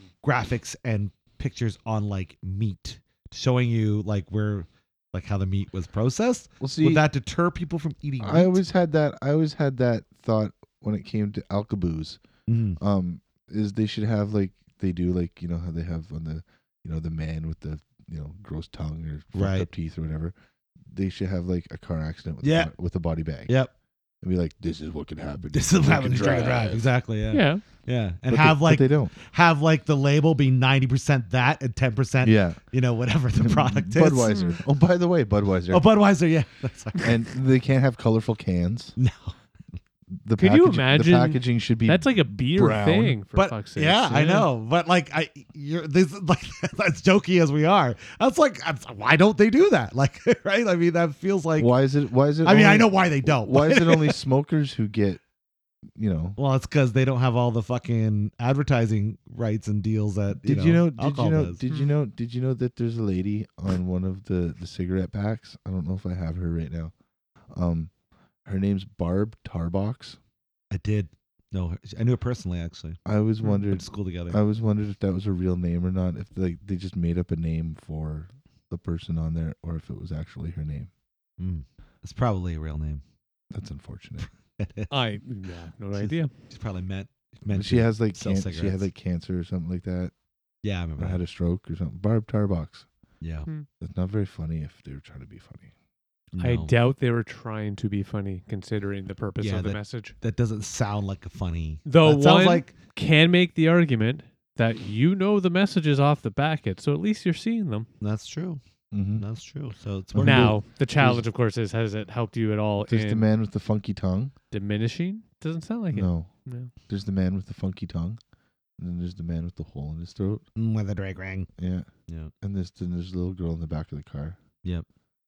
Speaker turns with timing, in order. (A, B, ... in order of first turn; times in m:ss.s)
0:00.2-0:08.6 A
0:06.6-0:07.0 B
0:08.2-0:12.2 B
0:12.5-0:12.8 A
0:12.8-0:20.3 B
0:19.3-0:19.7 A
0:20.8-0:23.6 B
0:22.4-0:22.7 A
0:23.5-0:23.7 A
0:24.2-0:26.9 B
0:25.5-0:34.4 A
0:27.3-0:27.6 C
0:28.3-0:29.1 B
0:32.2-0:32.6 B
0:33.4-0:35.8 B
0:34.3-0:34.6 C
0:35.7-0:37.1 A
0:37.0-0:39.0 B
0:39.0-0:39.4 A
0:40.2-0:43.2 B
0:40.4-0:44.5 C
0:43.3-0:51.7 A
0:51.6-0:55.2 B
0:52.4-0:54.2 A
0:56.0-0:56.4 B
0:56.4-1:01.6 A
1:00.4-1:06.9 B
1:07.5-1:07.9 B
1:08.4-1:10.2 B
1:10.7-1:13.0 A
1:13.0-1:20.9 B
1:13.6-1:14.4 A
1:21.4-1:23.0 A
1:23.5-1:24.3 B
1:24.6-1:24.9 A
1:24.9-1:26.3 C
1:25.9-1:28.9 A
1:27.5-1:30.1 B
1:30.6-1:31.2 A
1:31.0-1:32.9 B
1:33.2-1:33.5 A
1:33.8-1:35.7 B
1:36.3-1:36.8 A
1:36.4-1:40.2 C
1:39.4-1:42.7 A
1:41.9-1:47.9 C
1:48.0-1:48.6 A
1:48.9-1:49.2 B
1:49.2-1:50.6 A
1:50.1-1:51.2 B
1:50.2-1:53.3 C
1:52.9-1:54.3 B
1:54.5-1:56.7 C
1:55.9-1:56.3 B
1:56.9-1:58.2 B
1:58.8-2:00.4 B
2:00.6-2:01.5 A
2:01.6-2:01.9 B
2:02.4-2:04.4 B